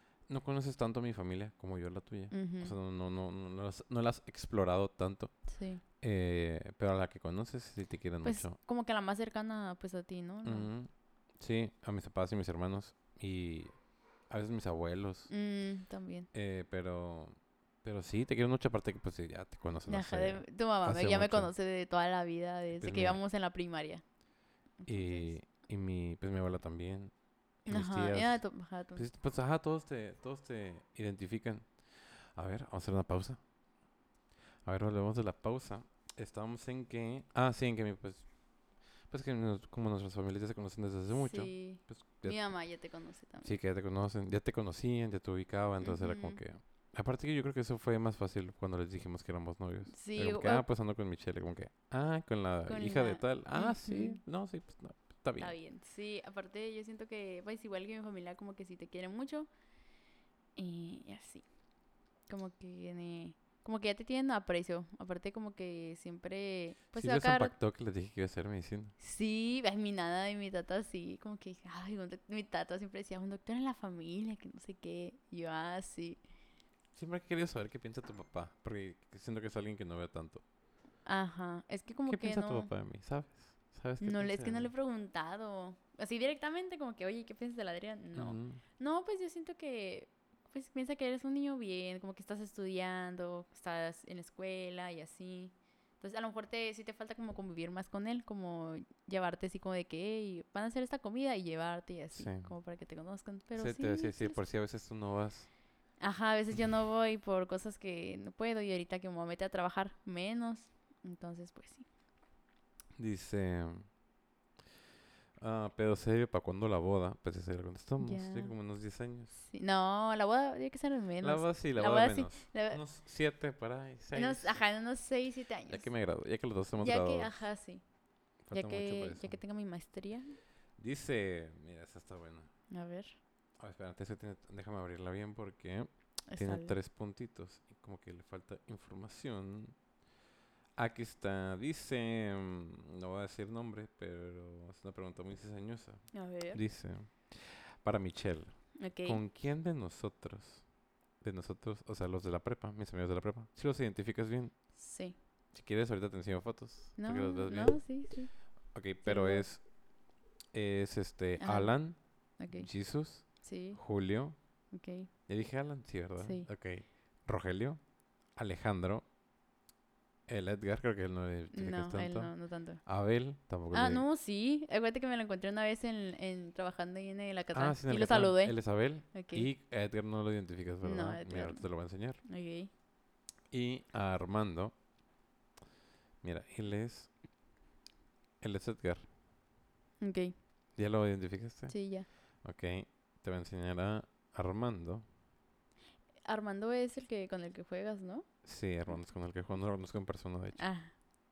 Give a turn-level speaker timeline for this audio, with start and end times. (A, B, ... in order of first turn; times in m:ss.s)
0:00.3-0:05.3 A
0:02.3-0:02.7 B
0:05.5-0:05.8 B
0:06.0-0:08.6 A
0:08.2-0:10.7 B
0:10.4-0:13.7 A
0:14.3-0:15.3 A
0:15.3-0:16.3 B
0:16.3-0:21.5 A
0:19.9-0:24.0 B
0:22.8-0:23.2 A
0:24.8-0:25.3 B
0:24.8-0:27.1 A
0:27.7-0:28.4 A
0:27.7-0:29.0 B
0:28.9-0:31.7 A
0:32.3-0:33.4 A
0:34.6-0:38.3 A
0:39.1-0:42.4 A
0:41.1-0:43.5 B
0:43.4-0:55.5 A
0:45.8-0:46.4 B
0:49.9-0:50.6 B
0:52.7-0:54.2 B
0:55.4-0:59.5 B
1:00.6-1:01.4 B
1:02.3-1:07.5 B
1:06.9-1:08.9 A
1:09.0-1:16.2 B
1:16.9-1:20.4 A
1:21.0-1:22.7 B
1:22.0-1:24.7 A
1:24.0-1:44.4 B
1:28.1-1:28.6 A
1:42.1-1:42.5 A
1:43.6-1:45.5 A
1:46.0-1:51.8 B
1:53.0-1:53.9 A
1:55.4-1:59.3 A
1:58.0-1:58.5 B
1:59.4-2:02.8 B
2:01.2-2:04.6 A
2:04.1-2:05.9 B
2:05.7-2:07.4 A
2:06.8-2:07.8 B
2:08.4-2:09.4 A
2:08.5-2:10.4 B
2:10.8-2:12.5 A
2:12.7-2:13.2 B
2:13.6-2:19.7 A
2:16.3-2:16.7 B
2:20.8-2:30.6 A
2:26.1-2:26.6 B
2:28.8-2:29.2 B
2:31.2-2:34.5 A
2:34.7-2:35.2 B
2:35.5-2:37.8 A
2:37.0-2:38.3 B
2:38.7-2:39.6 A
2:39.0-2:39.4 B
2:40.5-2:42.0 A
2:41.4-2:41.7 B
2:42.4-2:42.7 B
2:42.5-2:44.4 A
2:43.4-2:43.8 B
2:44.7-2:45.1 B
2:45.3-2:47.8 A
2:46.2-2:46.5 B
2:48.3-2:49.0 A
2:50.3-2:52.3 A
2:51.5-2:52.8 B
2:52.8-2:54.0 A
2:53.7-2:58.6 B
2:57.5-3:02.2 A
2:59.1-2:59.5 B
3:00.8-3:01.7 B
3:02.2-3:02.7 B
3:03.5-3:04.7 A
3:06.2-3:07.1 A
3:08.4-3:09.1 A
3:10.0-3:10.3 B
3:10.8-3:11.7 A
3:11.7-3:12.1 B
3:12.4-3:15.0 A
3:16.2-3:18.3 B
3:18.4-3:20.6 A
3:20.6-3:20.9 B